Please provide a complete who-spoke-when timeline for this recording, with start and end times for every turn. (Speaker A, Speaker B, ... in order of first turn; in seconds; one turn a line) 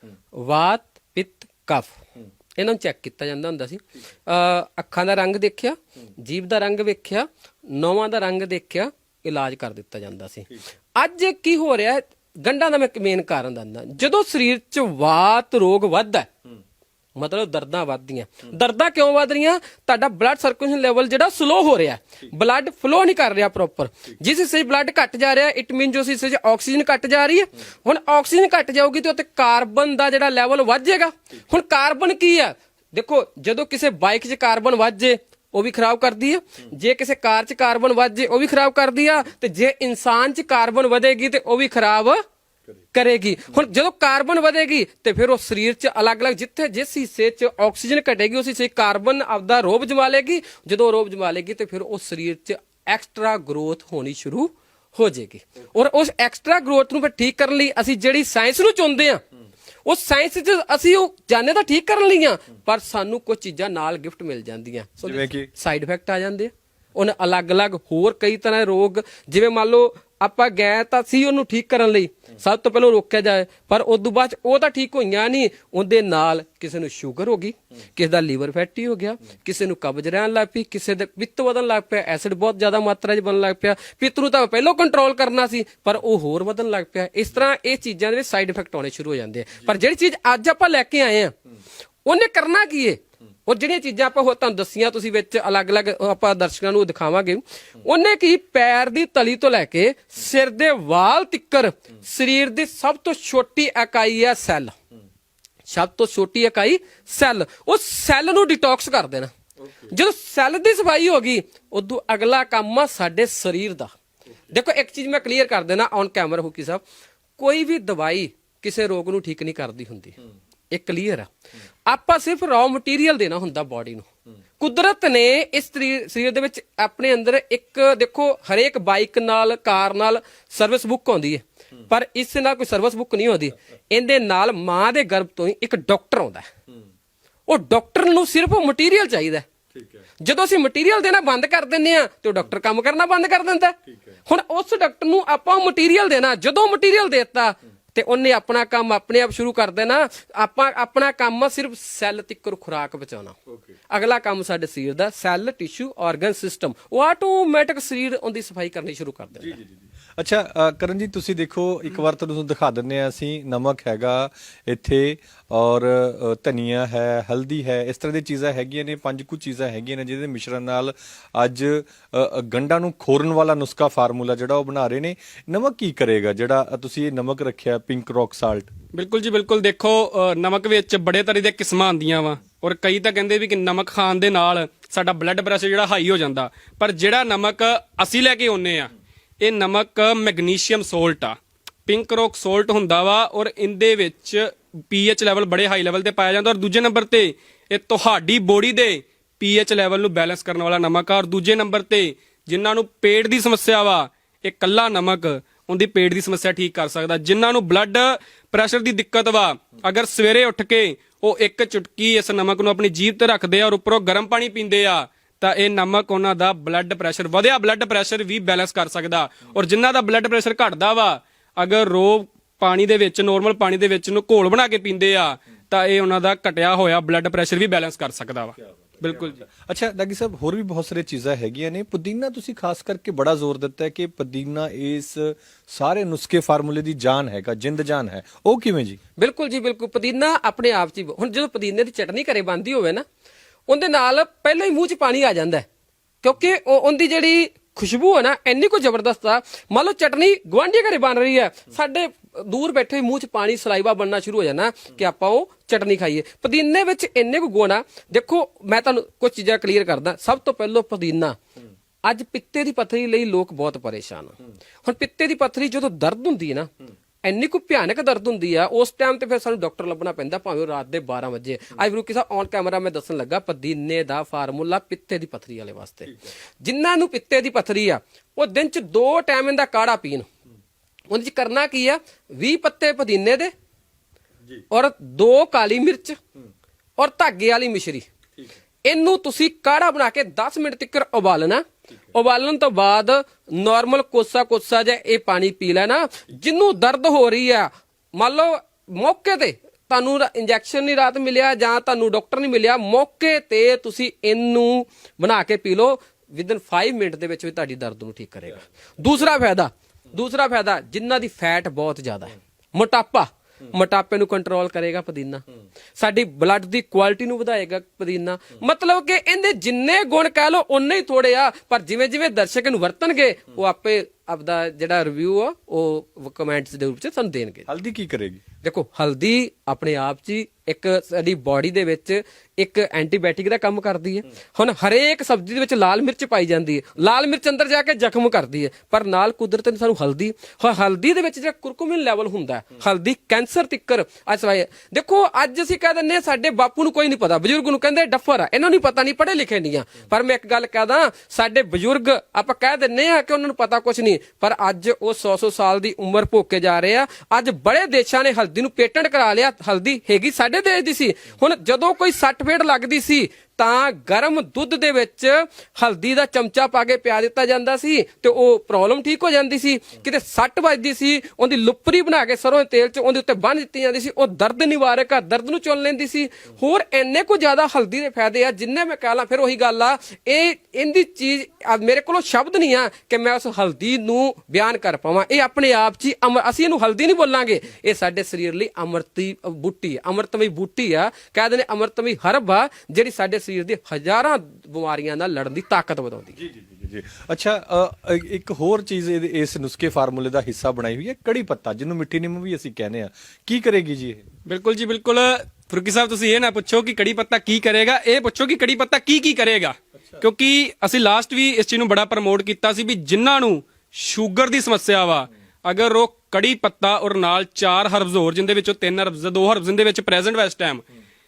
Speaker A: 0.3-2.0
Speaker A: 2.6-16.3
Speaker A: 17.2-42.2
Speaker A: 42.9-59.2
Speaker A: 59.9-91.3
Speaker B: 65.0-65.5
Speaker A: 92.1-104.7
Speaker A: 105.7-109.3
Speaker B: 109.6-109.9
Speaker A: 109.9-113.9
Speaker A: 114.5-116.8
Speaker A: 117.4-120.2
Speaker A: 120.7-121.3
Speaker A: 121.9-124.1
Speaker A: 124.6-136.5
Speaker A: 137.5-139.4
Speaker B: 139.8-140.0
Speaker A: 140.2-153.4
Speaker B: 143.9-144.2
Speaker B: 153.5-153.7
Speaker A: 153.9-159.6
Speaker B: 159.4-178.7
Speaker C: 178.9-229.4
Speaker B: 228.6-239.0
Speaker A: 239.2-243.0
Speaker A: 243.7-245.7
Speaker A: 246.2-261.4
Speaker A: 262.1-266.7
Speaker A: 267.2-280.3
Speaker A: 281.1-283.5
Speaker A: 284.7-286.2
Speaker A: 287.0-288.1
Speaker A: 288.9-315.4
Speaker A: 316.0-327.7
Speaker B: 327.7-328.4
Speaker A: 328.6-396.3
Speaker B: 396.4-404.2
Speaker C: 404.5-420.8
Speaker B: 409.9-410.3